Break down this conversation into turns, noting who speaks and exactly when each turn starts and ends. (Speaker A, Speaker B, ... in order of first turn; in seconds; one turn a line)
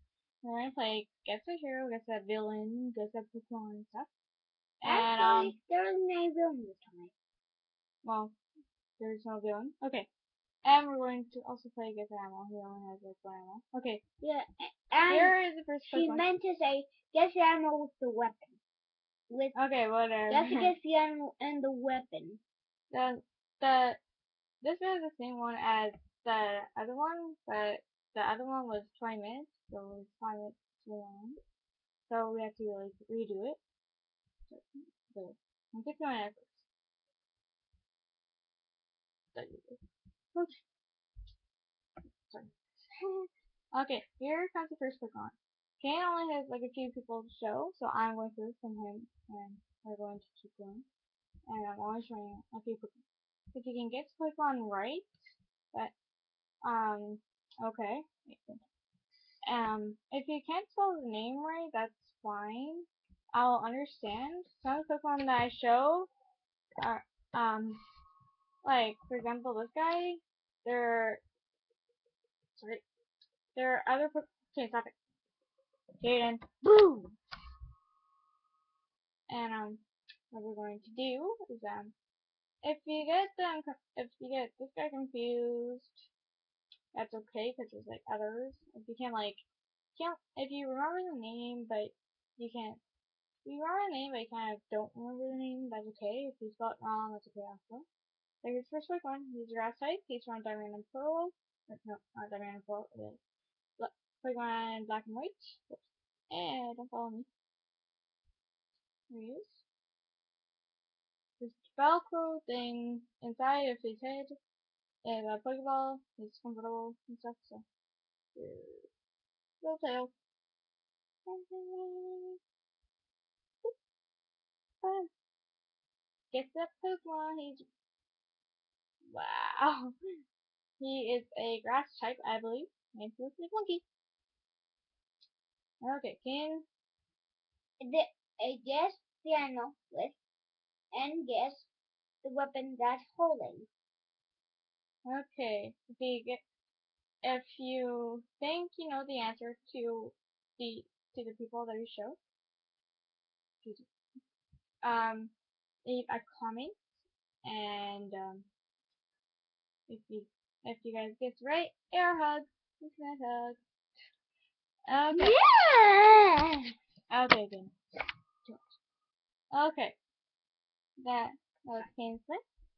Speaker A: 0.4-4.1
Speaker A: 4.8-5.5
Speaker B: 4.8-7.1
Speaker A: 8.0-8.3
Speaker A: 9.0-10.1
Speaker A: 10.6-14.0
Speaker B: 14.2-15.3
Speaker A: 15.1-16.2
Speaker B: 15.9-18.6
Speaker B: 19.3-19.6
Speaker A: 19.5-20.7
Speaker B: 20.3-22.4
Speaker A: 22.9-24.0
Speaker A: 24.6-31.4
Speaker A: 32.0-33.6
Speaker A: 34.5-36.7
Speaker A: 39.3-39.8
Speaker A: 42.3-50.9
Speaker A: 51.5-53.0
Speaker A: 53.5-55.1
Speaker A: 56.6-58.6
Speaker A: 59.5-66.1
Speaker A: 66.8-67.8
Speaker A: 68.6-71.2
Speaker A: 72.5-72.8
Speaker A: 73.5-75.0
Speaker A: 76.0-76.5
Speaker B: 76.6-77.1
Speaker A: 79.3-81.9
Speaker A: 82.6-86.1
Speaker A: 86.9-89.4
Speaker A: 89.9-92.8
Speaker A: 93.4-97.8
Speaker A: 98.4-103.2
Speaker A: 103.8-107.3
Speaker A: 109.1-109.6
Speaker A: 111.4-114.3
Speaker A: 115.0-117.6
Speaker A: 118.3-118.9
Speaker A: 119.6-120.1
Speaker A: 121.2-122.4
Speaker A: 124.8-125.1
Speaker A: 126.3-127.7
Speaker A: 129.1-129.9
Speaker A: 130.8-133.8
Speaker A: 135.8-136.6
Speaker B: 137.8-140.2
Speaker B: 140.9-141.7
Speaker B: 142.2-143.7
Speaker A: 145.0-146.4
Speaker A: 147.2-152.2
Speaker A: 153.6-153.9
Speaker A: 154.8-155.3
Speaker A: 155.8-156.7
Speaker A: 157.4-158.5
Speaker A: 159.9-163.6
Speaker A: 164.9-165.3
Speaker B: 165.1-166.6
Speaker A: 167.1-167.7
Speaker A: 169.5-170.0
Speaker A: 171.0-172.4